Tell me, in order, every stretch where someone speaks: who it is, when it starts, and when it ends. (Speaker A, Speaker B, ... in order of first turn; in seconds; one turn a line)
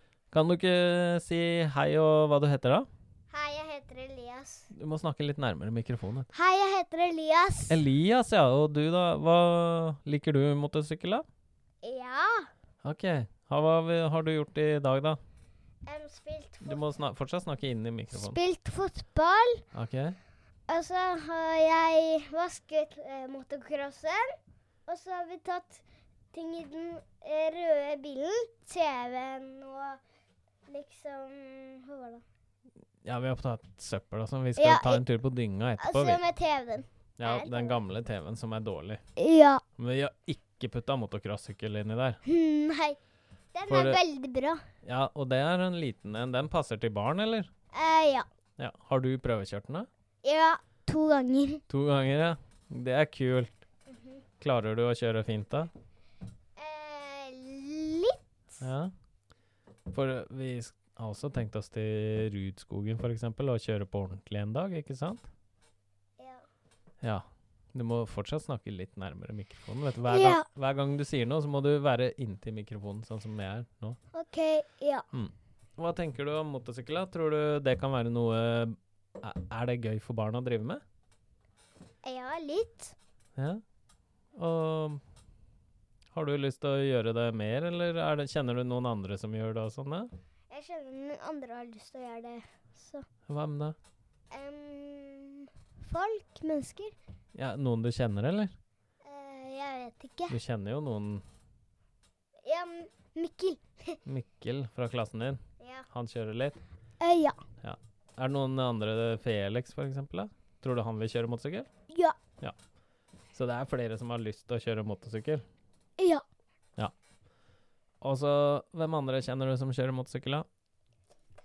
Speaker A: 0.3-2.9
Speaker B: 3.3-4.7
Speaker A: 4.7-6.3
Speaker B: 6.3-7.8
Speaker A: 7.7-11.2
Speaker B: 11.8-12.5
Speaker A: 12.8-15.2
Speaker B: 15.9-16.9
Speaker A: 16.6-18.4
Speaker B: 18.1-19.6
Speaker A: 19.7-20.2
Speaker B: 20.7-24.4
Speaker B: 24.9-30.0
Speaker B: 30.7-32.2
Speaker A: 33.0-36.2
Speaker B: 34.6-35.0
Speaker B: 35.8-37.8
Speaker A: 37.2-39.0
Speaker B: 39.2-39.6
Speaker A: 39.8-42.2
Speaker B: 42.2-43.0
Speaker B: 43.5-44.6
Speaker A: 43.7-44.0
Speaker A: 44.8-47.5
Speaker B: 47.7-48.3
Speaker A: 48.6-49.9
Speaker B: 50.2-51.6
Speaker A: 51.7-53.5
Speaker B: 53.9-54.2
Speaker A: 54.4-55.7
Speaker B: 56.6-58.2
Speaker A: 58.6-58.9
Speaker A: 59.9-65.3
Speaker B: 66.2-66.5
Speaker A: 67.0-74.0
Speaker B: 70.1-70.5
Speaker B: 74.1-75.1
Speaker A: 75.1-80.8
Speaker B: 82.0-83.0
Speaker A: 83.4-83.6
Speaker A: 84.3-85.0
Speaker A: 86.1-90.1
Speaker B: 90.5-93.1
Speaker A: 93.3-93.8
Speaker B: 94.3-96.9
Speaker A: 97.3-98.6
Speaker B: 99.0-100.4
Speaker A: 100.3-101.2
Speaker B: 102.5-104.0
Speaker A: 104.1-106.6
Speaker B: 105.6-105.9
Speaker B: 107.0-107.4
Speaker A: 107.6-111.7
Speaker B: 111.9-112.2
Speaker A: 113.3-115.5
Speaker B: 116.0-116.2
Speaker A: 118.0-120.5